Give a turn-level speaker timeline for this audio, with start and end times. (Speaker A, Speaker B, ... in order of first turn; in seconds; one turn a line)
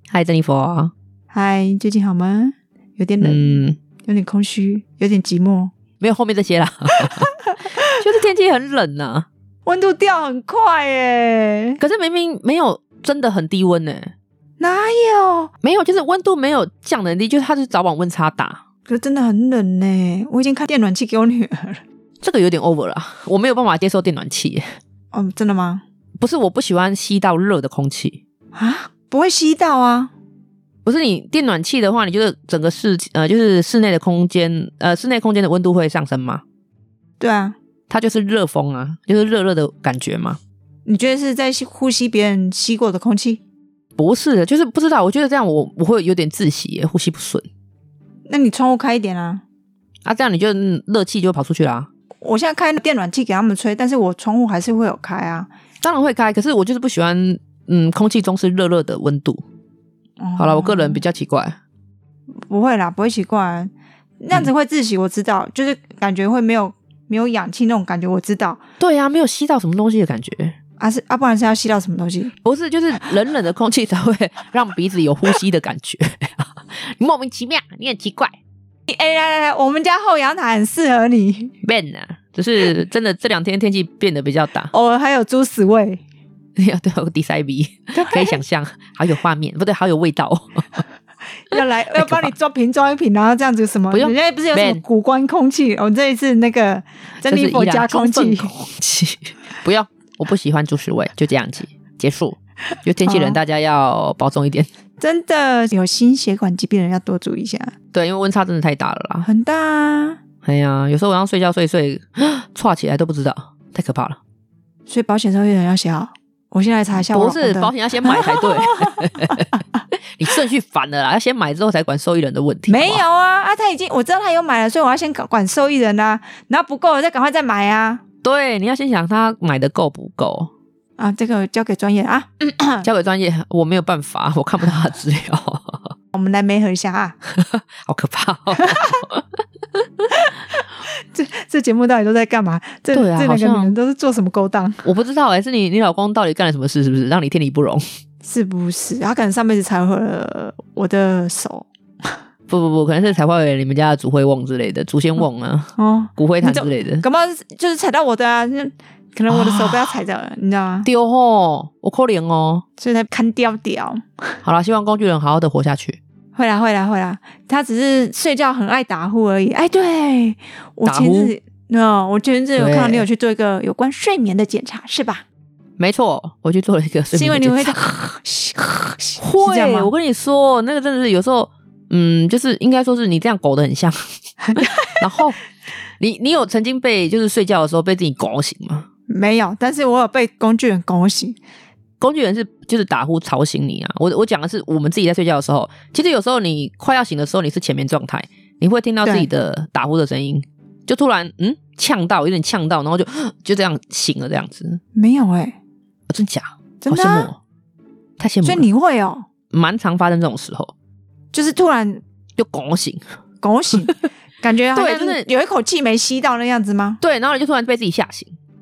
Speaker A: 0.1-0.9
Speaker B: 1.3-5.7
Speaker A: 3.2-3.8
Speaker A: 6.0-7.3
Speaker B: 7.0-8.0
Speaker A: 7.9-9.3
Speaker B: 9.7-11.8
Speaker A: 11.8-14.1
Speaker B: 14.6-15.5
Speaker A: 15.6-18.6
Speaker B: 18.9-21.8
Speaker A: 22.2-24.6
Speaker B: 25.1-25.8
Speaker A: 26.2-28.2
Speaker B: 28.5-30.1
Speaker A: 30.8-36.4
Speaker B: 37.2-37.5
Speaker A: 37.9-40.4
Speaker B: 40.9-43.4
Speaker A: 44.0-47.5
Speaker B: 48.3-49.4
Speaker A: 50.0-51.9
Speaker B: 52.2-55.5
Speaker A: 55.8-59.4
Speaker B: 60.2-61.0
Speaker A: 60.4-61.6
Speaker B: 62.5-68.6
Speaker A: 68.8-70.6
Speaker B: 70.8-72.3
Speaker A: 72.4-78.3
Speaker B: 78.9-81.5
Speaker A: 81.6-84.7
Speaker B: 84.7-86.0
Speaker A: 86.6-90.8
Speaker B: 87.9-88.4
Speaker B: 91.4-98.5
Speaker A: 91.9-92.3
Speaker A: 93.9-94.8
Speaker A: 97.2-104.7
Speaker B: 103.0-103.4
Speaker B: 105.0-107.7
Speaker A: 107.9-109.3
Speaker B: 109.2-110.2
Speaker A: 110.4-114.2
Speaker B: 114.9-119.8
Speaker A: 117.0-119.6
Speaker A: 120.1-123.0
Speaker B: 122.7-128.0
Speaker A: 128.2-130.5
Speaker B: 131.0-132.9
Speaker A: 132.8-135.9
Speaker B: 136.1-137.2
Speaker A: 137.3-140.1
Speaker B: 138.5-138.9
Speaker B: 140.1-144.8
Speaker A: 142.9-143.7
Speaker A: 144.8-147.8
Speaker B: 148.2-152.2
Speaker A: 152.5-157.0
Speaker B: 155.8-160.9
Speaker A: 159.3-160.0
Speaker A: 160.8-162.6
Speaker B: 162.8-164.4
Speaker A: 164.4-166.0
Speaker B: 166.3-175.2
Speaker A: 170.8-171.3
Speaker A: 172.6-173.1
Speaker A: 175.8-177.8
Speaker B: 177.1-179.9
Speaker A: 179.2-184.0
Speaker B: 184.4-185.0
Speaker A: 184.6-185.4
Speaker A: 186.0-188.9
Speaker B: 189.1-191.4
Speaker A: 192.0-204.8
Speaker B: 204.9-205.6
Speaker A: 206.1-207.4
Speaker B: 206.8-207.3
Speaker A: 208.2-208.7
Speaker B: 208.4-209.2
Speaker A: 209.5-210.7
Speaker B: 211.3-212.0
Speaker A: 212.4-213.0
Speaker B: 213.4-217.0
Speaker A: 214.7-215.3
Speaker A: 217.0-218.3